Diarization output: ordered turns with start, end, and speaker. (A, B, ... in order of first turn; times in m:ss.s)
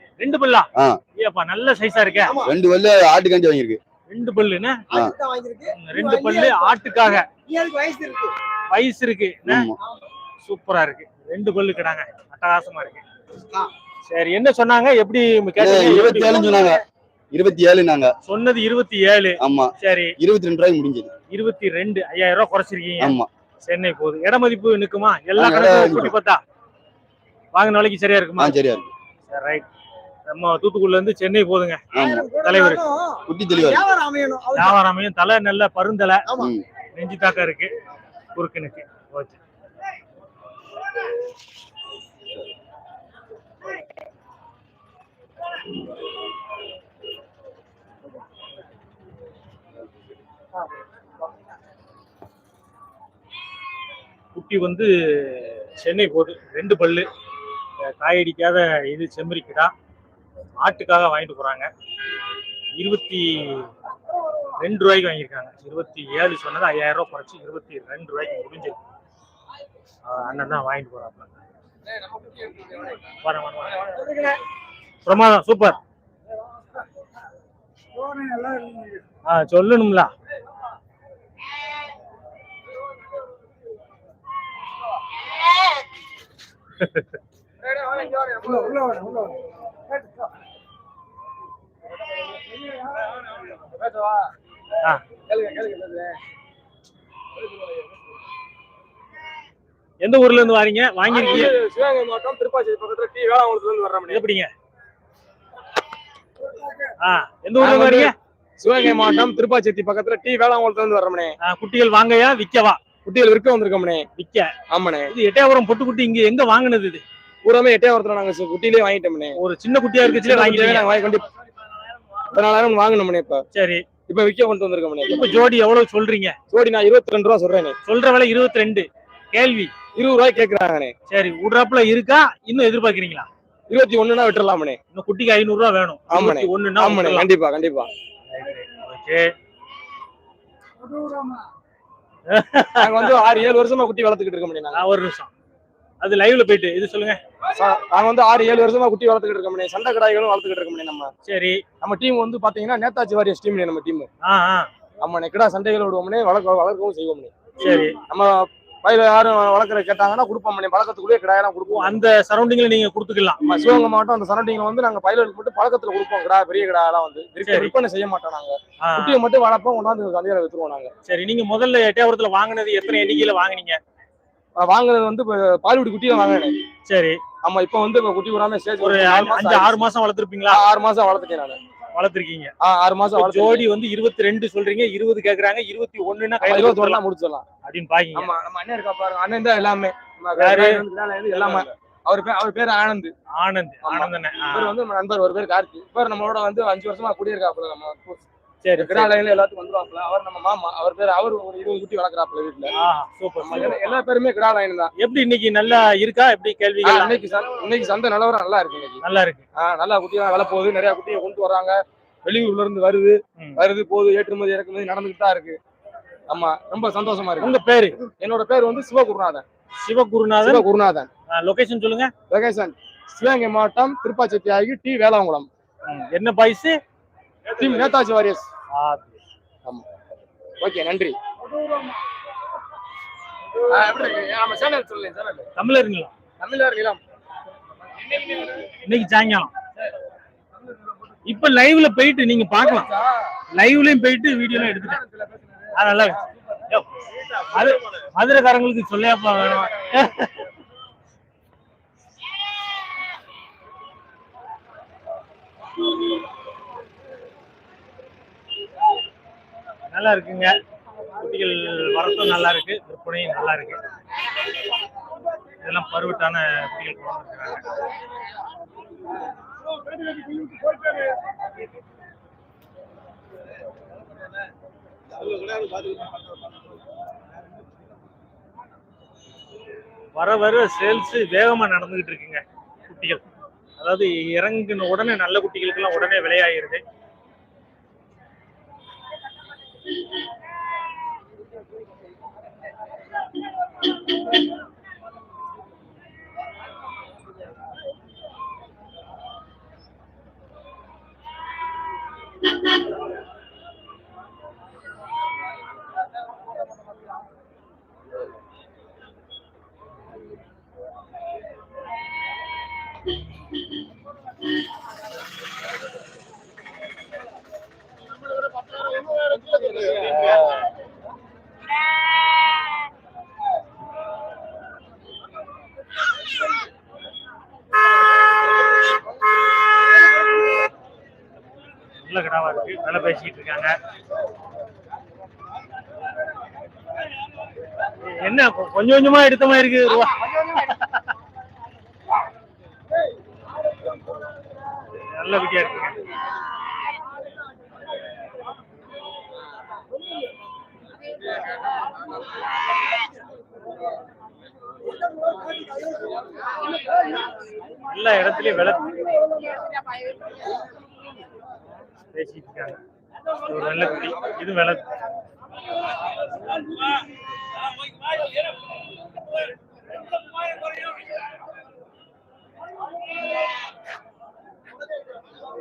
0:00.2-0:02.4 A
0:02.2-0:02.6 B
0:02.4-0:03.8 C
0:04.1-0:04.8 A
0:04.9-0:08.3 B
0:05.7-0:07.2 A
0:08.7-0:09.7 A
0:09.5-0:09.8 C
0:10.4-0:13.0 A
0:14.1-0:16.4 A
0:15.6-0:16.8 C
0:16.0-0:16.8 B
0:17.3-0:18.1 C
0:18.2-0:20.1 A
0:19.4-0:21.1 C
0:21.3-0:26.4 A
0:23.0-0:23.3 C
0:25.4-0:26.1 C
0:27.5-0:28.6 A
0:28.4-0:28.9 C
0:29.2-0:29.6 A
0:30.3-0:31.8 A
0:31.9-0:32.3 C
0:31.9-0:34.8 B
0:32.4-0:32.8 A
0:33.3-0:33.8 C
0:34.5-0:36.2 A
0:36.3-0:36.5 B
0:36.4-0:36.6 C
0:37.0-0:37.7 A
0:38.3-0:39.4 A
0:54.3-0:57.1 A
0:57.8-0:59.7 A
1:00.6-1:01.7 A
1:02.8-1:03.7 A
1:04.6-1:08.8 A
1:10.0-1:11.3 A
1:11.8-1:13.0 D
1:13.2-1:14.1 A
1:13.7-1:14.1 D
1:15.0-1:15.8 A
1:18.1-1:18.8 B
1:19.2-1:20.1 A
1:26.8-1:27.1 A
1:27.6-1:29.3 D
1:32.8-1:34.3 D
1:35.2-1:36.2 D
1:40.0-1:41.5 A
1:41.0-1:44.2 D
1:44.1-1:44.5 A
1:47.0-1:48.1 A
1:47.6-1:51.3 D
1:51.4-1:52.8 A
1:53.0-1:54.0 D
1:54.2-1:54.5 A
1:54.7-1:55.1 D
1:55.1-1:57.0 A
1:57.4-1:59.3 D
1:59.4-2:00.9 A
2:00.1-2:01.2 D
2:02.3-2:03.4 D
2:03.5-2:03.9 A
2:04.0-2:05.3 D
2:05.1-2:06.4 A
2:06.5-2:07.8 D
2:07.8-2:09.7 A
2:10.0-2:10.9 D
2:11.1-2:13.3 A
2:13.7-2:14.8 D
2:14.9-2:17.3 A
2:16.1-2:17.9 D
2:18.3-2:19.3 A
2:22.3-2:23.2 A
2:22.8-2:24.8 D
2:24.7-2:25.3 A
2:26.0-2:27.2 A
2:27.5-2:31.1 D
2:31.2-2:31.6 A
2:31.8-2:34.1 D
2:34.2-2:34.7 A
2:35.0-2:37.3 D
2:37.6-2:38.0 A
2:38.8-2:42.0 D
2:41.7-2:43.4 A
2:43.4-2:50.9 D
2:47.4-2:47.7 A
2:48.8-2:49.2 A
2:51.0-2:53.8 A
2:54.6-2:56.5 D
2:56.8-2:57.2 A
2:57.4-2:59.8 D
2:58.8-3:00.6 A
3:00.5-3:01.6 D
3:01.9-3:02.5 A
3:02.6-3:03.7 D
3:03.2-3:07.0 A
3:06.4-3:07.4 D
3:07.6-3:08.3 A
3:08.1-3:13.1 D
3:10.4-3:10.8 A
3:11.4-3:11.6 A
3:13.4-3:14.8 A
3:13.8-3:18.2 D
3:18.6-3:19.2 A
3:18.8-3:22.7 D
3:22.7-3:23.8 A
3:23.4-3:24.9 D
3:25.0-3:27.2 A
3:26.8-3:29.0 D
3:29.0-3:29.4 A
3:29.6-3:35.6 D
3:33.4-3:33.6 A
3:36.3-3:37.5 D
3:37.4-3:38.0 A
3:38.2-3:39.4 D
3:39.8-3:40.6 A
3:40.4-3:41.1 D
3:41.3-3:42.1 A
3:42.3-3:45.5 D
3:45.8-3:46.8 A
3:47.5-3:48.5 D
3:48.7-3:49.2 A
3:50.6-3:51.1 D
3:53.7-3:55.5 D
3:55.6-3:56.1 A
3:56.4-3:57.0 D
3:58.7-3:59.5 A
4:01.2-4:02.9 A
4:02.6-4:03.2 D
4:03.5-4:05.0 A
4:04.5-4:05.7 D
4:05.7-4:10.5 A
4:19.9-4:20.6 A
4:21.2-4:23.8 A
4:25.6-4:27.8 A
4:40.2-4:43.2 A
4:43.8-4:46.8 A
5:32.0-5:33.7 A
5:38.0-5:41.0 A
5:45.0-5:46.0 A
5:57.8-5:59.1 A
6:02.1-6:02.8 A
6:03.4-6:04.8 A